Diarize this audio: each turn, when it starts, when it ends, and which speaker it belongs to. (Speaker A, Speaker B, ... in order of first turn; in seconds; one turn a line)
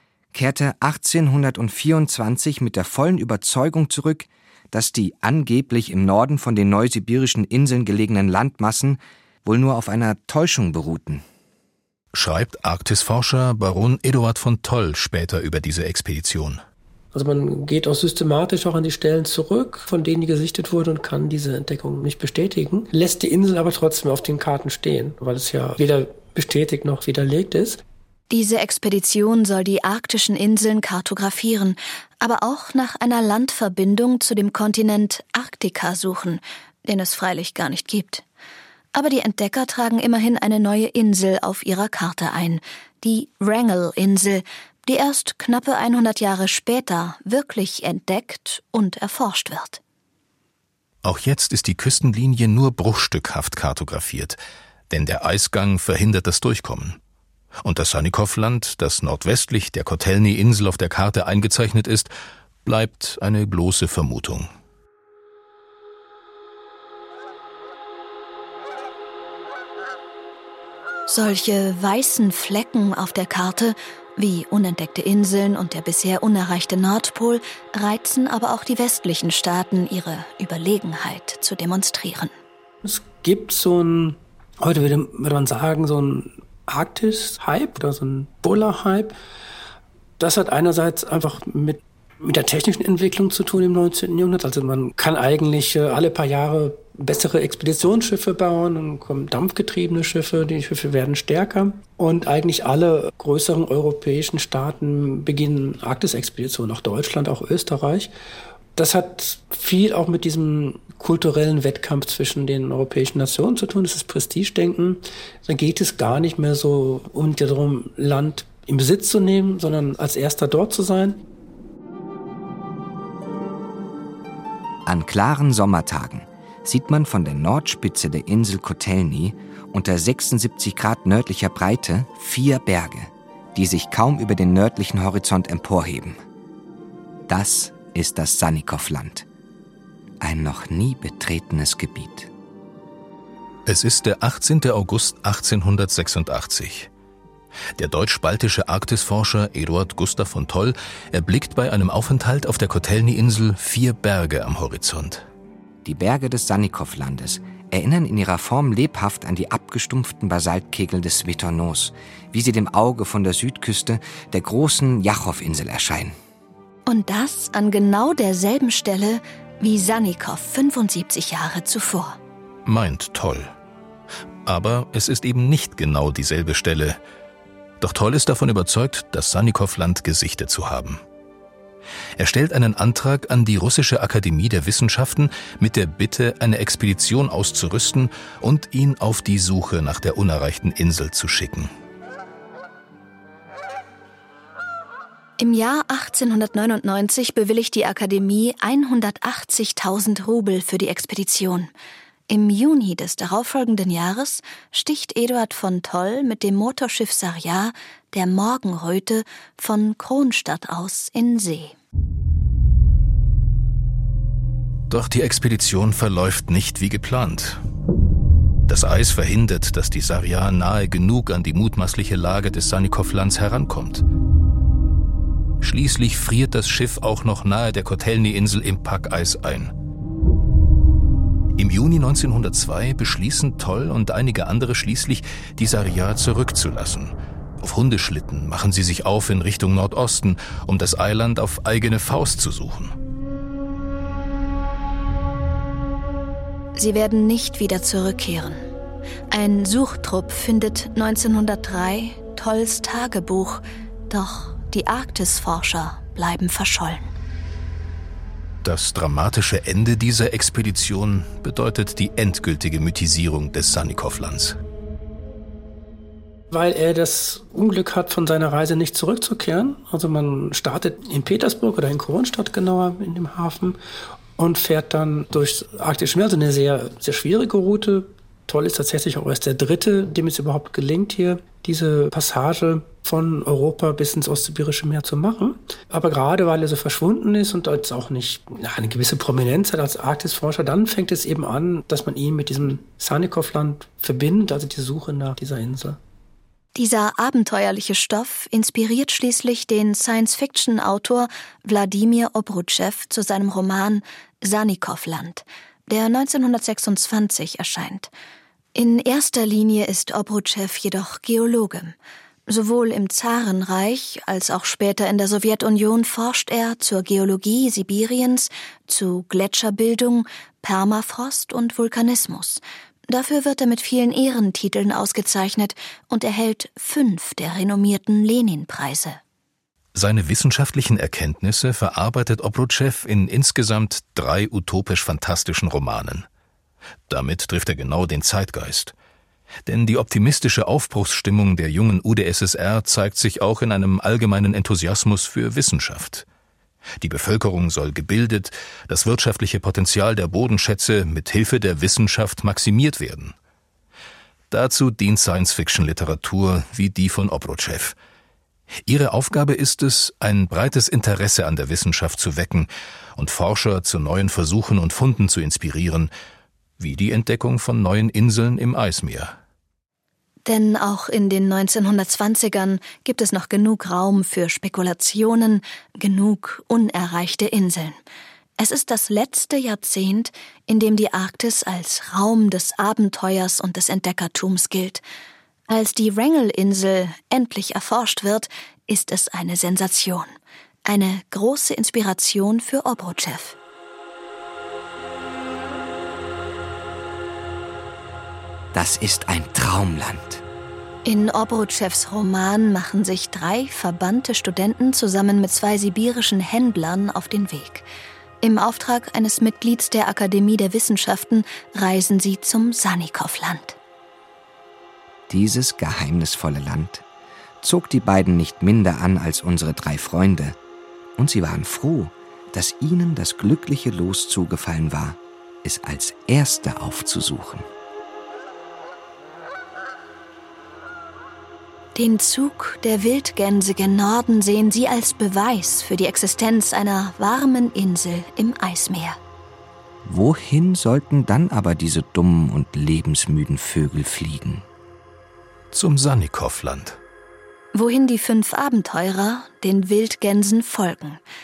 Speaker A: 0.3-11.2
Speaker B: 12.1-16.6
Speaker C: 17.1-27.8
Speaker D: 28.3-38.2
Speaker D: 38.9-49.8
Speaker B: 51.0-54.4
Speaker B: 54.9-57.0
Speaker B: 57.6-62.1
Speaker B: 62.6-64.5
Speaker D: 71.1-82.3
Speaker C: 82.8-89.2
Speaker C: 90.2-108.1
Speaker C: 108.8-121.2
Speaker A: 124.8-136.2
Speaker A: 137.3-139.2
Speaker A: 140.2-142.3
Speaker B: 143.7-146.9
Speaker B: 147.8-155.2
Speaker A: 155.8-166.2
Speaker D: 166.9-172.2
Speaker B: 172.7-173.5
Speaker B: 174.4-177.0
Speaker B: 177.8-181.0
Speaker B: 182.2-191.7
Speaker D: 195.4-201.7
Speaker D: 202.3-211.8
Speaker B: 214.9-217.6
Speaker B: 218.7-224.0
Speaker B: 225.6-229.7
Speaker B: 231.6-242.9
Speaker D: 246.7-248.6
Speaker D: 249.3-257.1
Speaker B: 258.6-264.6
Speaker C: 266.5-273.8
Speaker C: 274.4-296.0
Speaker D: 296.7-308.1
Speaker D: 308.7-311.9
Speaker D: 312.5-329.2
Speaker B: 329.9-336.3
Speaker B: 337.1-338.9
Speaker B: 339.6-346.2
Speaker B: 347.0-353.3
Speaker B: 354.5-357.9
Speaker B: 358.9-366.1
Speaker B: 366.8-369.3
Speaker D: 370.4-378.0
Speaker D: 378.6-385.0
Speaker D: 385.7-390.3
Speaker D: 390.9-393.6
Speaker A: 398.7-400.4
Speaker D: 401.0-407.9
Speaker D: 408.4-413.8
Speaker A: 415.3-417.0
Speaker A: 417.6-420.6
Speaker A: 421.1-427.6
Speaker D: 431.9-439.2
Speaker A: 440.0-444.6
Speaker B: 445.7-447.0
Speaker D: 447.7-451.2